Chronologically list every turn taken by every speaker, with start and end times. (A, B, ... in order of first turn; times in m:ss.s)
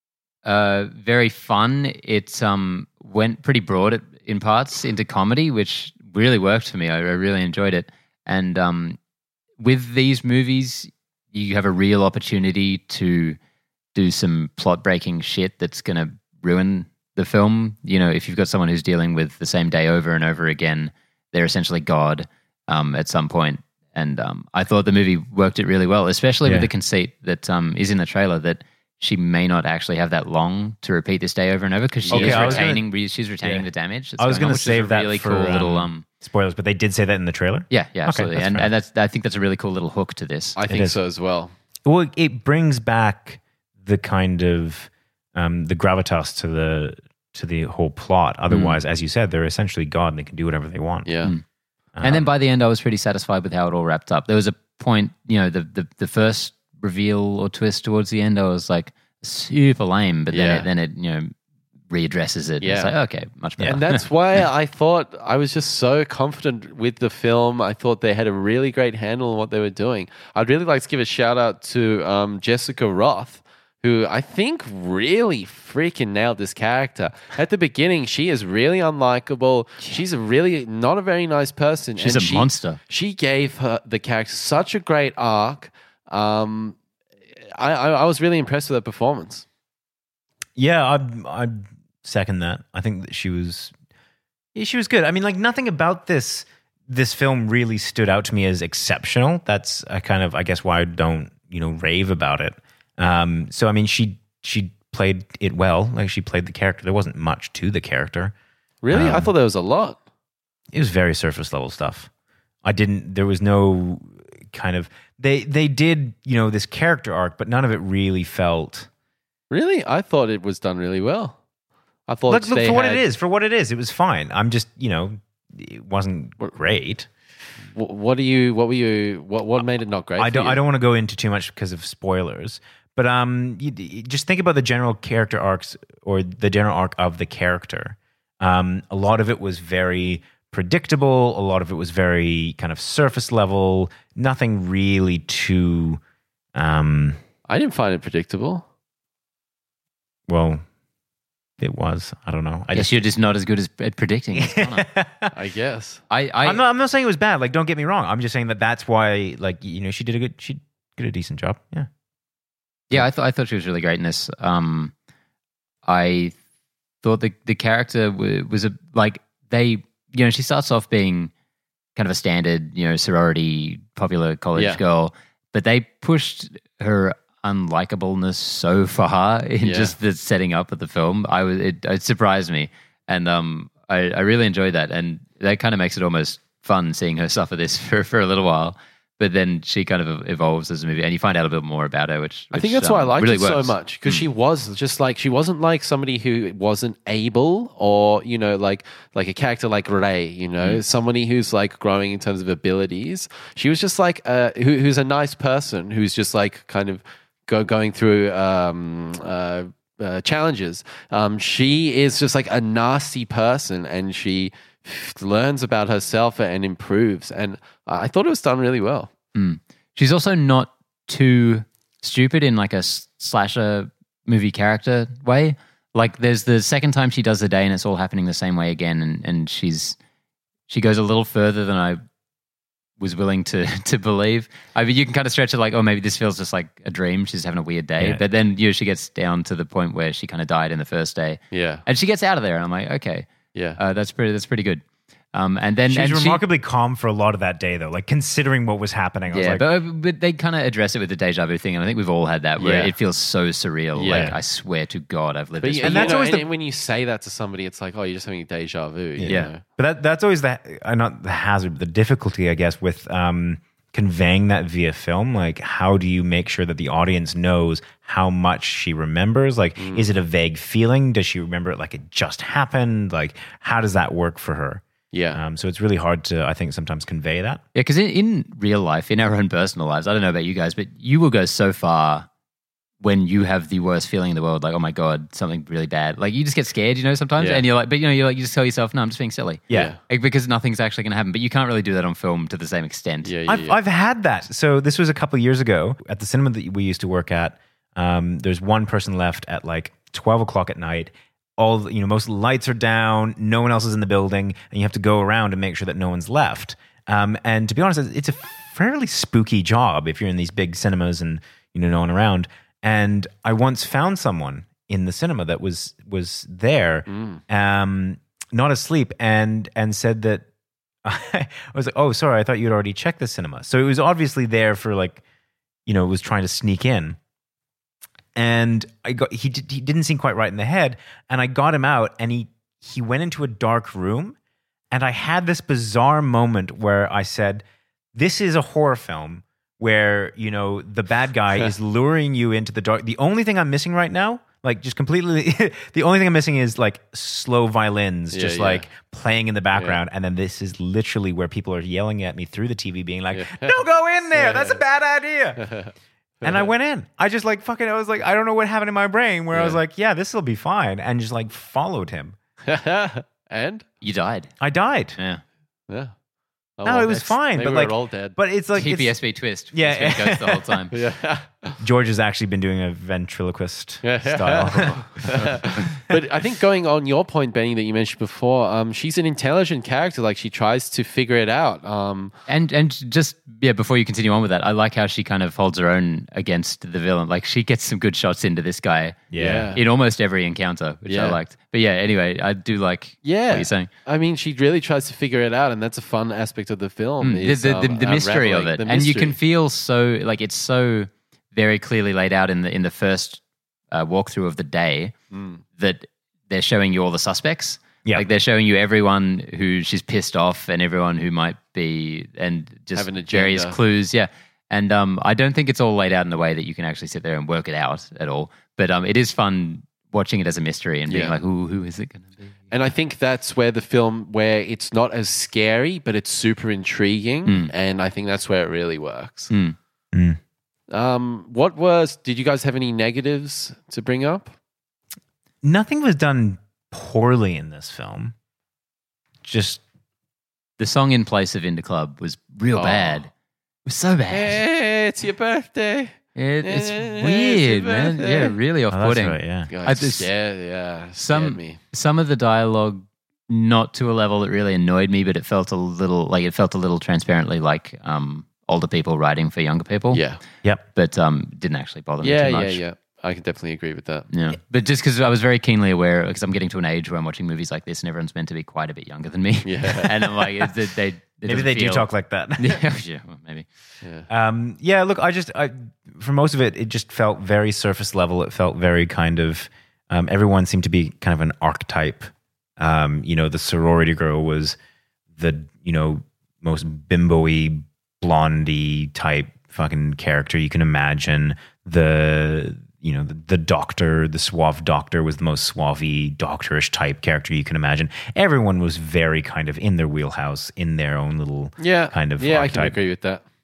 0:00.4-0:09.0 A
0:09.6-0:13.4 A
0:13.9-0:36.0 A
0:32.0-0:32.7 B
0:32.1-0:32.9 C
0:33.4-0:33.7 C
0:34.2-0:38.7 C
0:37.7-0:40.6 A
0:40.6-0:41.5 B
0:40.6-0:41.0 C
0:41.8-0:51.1 C
0:48.5-0:48.8 A
0:51.0-0:51.3 B
0:51.9-0:52.3 C
0:52.0-1:01.3 A
1:00.3-1:00.7 B
1:01.9-1:04.0 A
1:02.6-1:02.9 B
1:03.6-1:26.8 B
1:22.0-1:22.8 A
1:27.6-1:29.4 B
1:30.6-1:33.7 C
1:34.5-1:48.3 C
1:48.8-1:50.0 B
1:48.9-1:49.3 C
1:50.7-1:52.1 C
1:52.6-1:58.9 C
1:59.5-2:01.4 B
2:02.1-2:03.0 B
2:02.3-2:07.1 C
2:07.7-2:10.6 B
2:10.2-2:26.0 C
2:26.6-2:27.2 C
2:27.5-2:28.6 B
2:30.3-2:30.6 C
2:31.6-2:33.0 C
2:32.7-2:34.9 A
2:34.4-2:35.3 C
2:35.3-2:36.0 B
2:36.1-2:36.6 A
2:36.4-2:41.9 C
2:42.9-2:44.9 A
2:45.8-2:46.4 A
2:47.0-2:51.3 A
2:52.0-3:14.2 A
2:54.6-2:54.8 B
2:59.6-2:59.9 B
3:12.5-3:39.1 B
3:39.3-3:50.0 A
3:50.7-3:52.0 A
3:53.0-4:06.4 A
4:01.5-4:01.8 B
4:03.5-4:03.8 B
4:05.9-4:09.7 C
4:09.3-4:16.2 A
4:12.6-4:12.9 B
4:13.9-4:14.3 B
4:14.1-4:14.4 C
4:15.6-4:19.6 B
4:15.8-4:16.5 C
4:19.2-4:37.6 C
4:19.2-4:19.5 A
4:29.8-4:30.1 B
4:35.1-4:35.4 B
4:37.7-4:42.3 A
4:43.0-4:53.3 A
4:47.4-4:47.6 B
4:49.7-4:50.0 B
4:53.2-4:53.8 B
4:53.5-5:20.4 C
5:17.1-5:17.4 B
5:21.0-5:25.2 C
5:25.8-5:27.2 C
5:28.3-5:34.4 C
5:34.9-5:37.6 C
5:38.1-5:55.6 C
5:48.3-5:48.9 B
5:53.3-5:53.8 B
5:54.3-5:54.8 B
5:55.6-5:55.9 B
5:56.4-5:56.7 B
5:56.4-6:02.4 C
5:59.5-5:59.8 B
6:02.6-6:03.8 B
6:04.0-6:04.5 A
6:04.6-6:05.2 C
6:05.2-6:05.4 A
6:06.8-6:08.4 B
6:06.8-6:09.2 C
6:08.7-6:11.0 A
6:09.7-6:10.8 C
6:10.9-6:11.8 B
6:11.8-6:15.6 C
6:14.0-6:22.3 B
6:22.5-6:33.9 A
6:29.3-6:29.7 C
6:29.4-6:29.8 B
6:31.1-6:31.4 B
6:33.2-6:39.4 B
6:37.2-6:45.1 A
6:45.3-6:45.6 B
6:45.8-7:02.7 A
6:52.9-6:53.8 B
7:01.1-7:01.4 B
7:02.7-7:09.5 B
7:07.4-7:07.7 A
7:09.5-7:09.8 A
7:10.1-7:10.4 C
7:10.9-7:14.5 B
7:15.6-7:18.3 C
7:19.4-7:19.8 C
7:20.8-7:23.3 A
7:22.8-7:23.2 B
7:23.8-7:24.6 A
7:24.3-7:28.6 B
7:26.3-7:30.3 A
7:28.9-7:29.7 C
7:29.7-7:31.8 B
7:31.2-7:40.2 A
7:40.1-7:40.4 B
7:40.9-7:42.8 A
7:42.2-7:44.3 B
7:44.3-7:53.7 A
7:49.6-7:50.4 B
7:51.4-7:52.8 C
7:54.0-7:54.3 B
7:54.3-8:04.8 C
8:05.4-8:23.0 C
8:21.8-8:23.4 B